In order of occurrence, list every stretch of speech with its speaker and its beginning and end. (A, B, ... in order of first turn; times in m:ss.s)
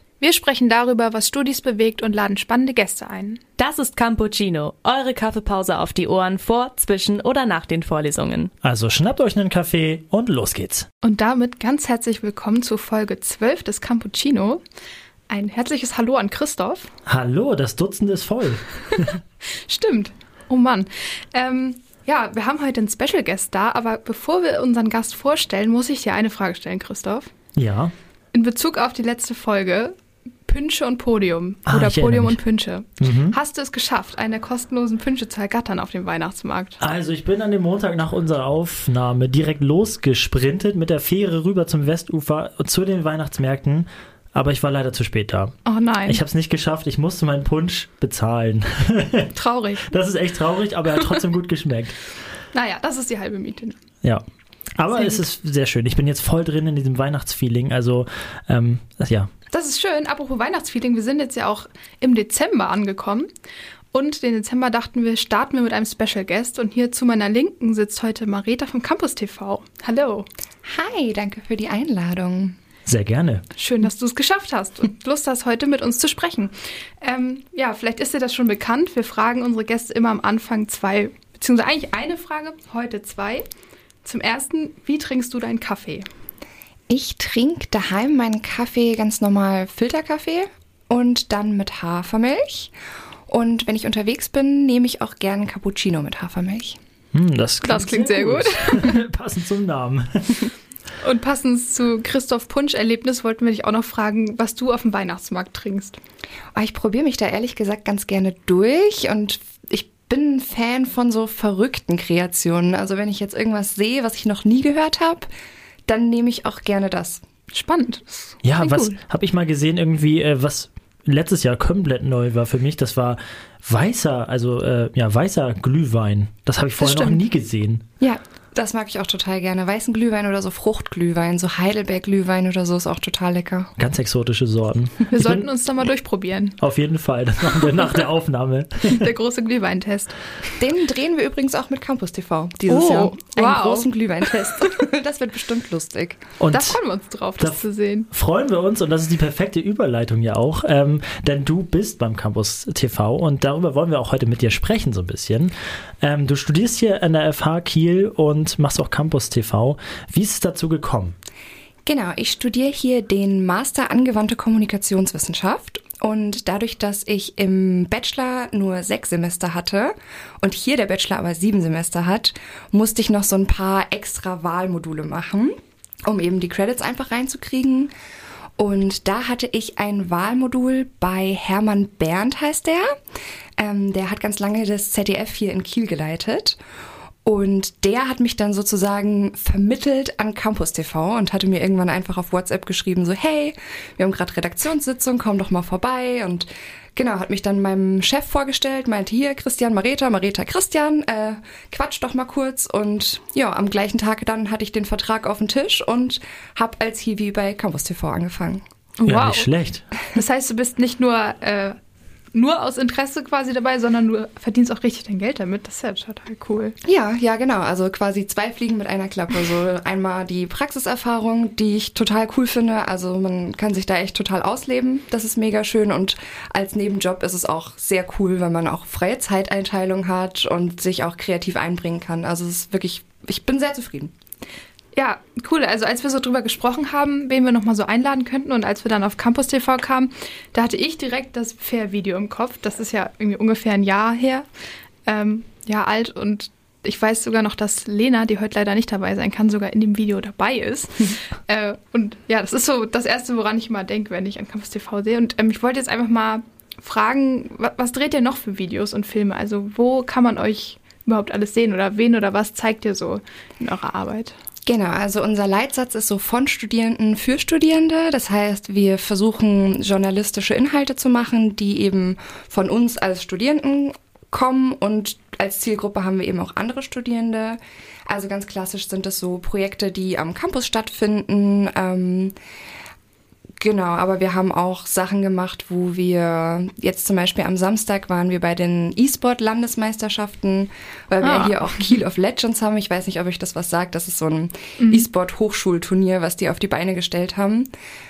0:00.2-0:03.4 A
0:03.6-0:08.5 B
0:08.6-0:10.9 C
0:11.0-0:14.6 A
0:15.3-0:16.9 A
0:17.1-0:19.2 C
0:19.6-0:27.3 A
0:27.6-0:27.9 C
0:28.3-0:29.9 A
0:30.5-0:36.8 A
0:31.7-0:32.4 C
0:33.0-0:33.4 C
0:36.8-0:45.5 C
0:45.7-0:46.2 A
0:46.1-0:49.3 C
0:49.3-0:49.9 A
0:49.9-0:52.1 C
0:52.5-0:53.8 A
0:54.8-0:59.3 C
0:54.9-0:55.2 A
0:59.5-1:03.3 A
1:03.9-1:10.3 A
1:10.7-1:12.6 D
1:12.9-1:13.4 C
1:13.6-1:23.4 A
1:24.0-1:26.0 A
1:26.9-1:32.7 D
1:33.3-1:36.8 D
1:37.1-1:40.5 C
1:37.6-1:39.0 A
1:41.0-1:46.0 A
1:46.6-1:55.3 D
1:55.9-1:57.2 D
1:57.5-1:58.9 A
1:58.4-2:07.8 C
2:06.8-2:07.2 A
2:08.0-2:13.7 D
2:13.8-2:15.5 C
2:15.1-2:16.6 A
2:16.6-2:19.1 C
2:18.9-2:20.2 A
2:20.6-2:26.3 D
2:22.7-2:23.9 A
2:26.4-2:26.8 C
2:26.5-2:28.1 A
2:28.1-2:41.2 C
2:41.9-2:55.5 D
2:56.0-2:57.9 D
2:58.6-3:02.9 D
3:03.6-3:06.6 D
3:07.2-3:28.6 D
3:29.0-3:29.5 A
3:29.0-3:29.9 C
3:30.1-3:31.8 A
3:32.3-3:36.8 A
3:36.8-3:54.1 D
3:55.0-4:04.5 A
4:05.1-4:24.3 A
4:24.7-4:42.3 D
4:43.6-4:57.7 D
4:51.2-4:51.6 A
4:54.8-4:55.1 A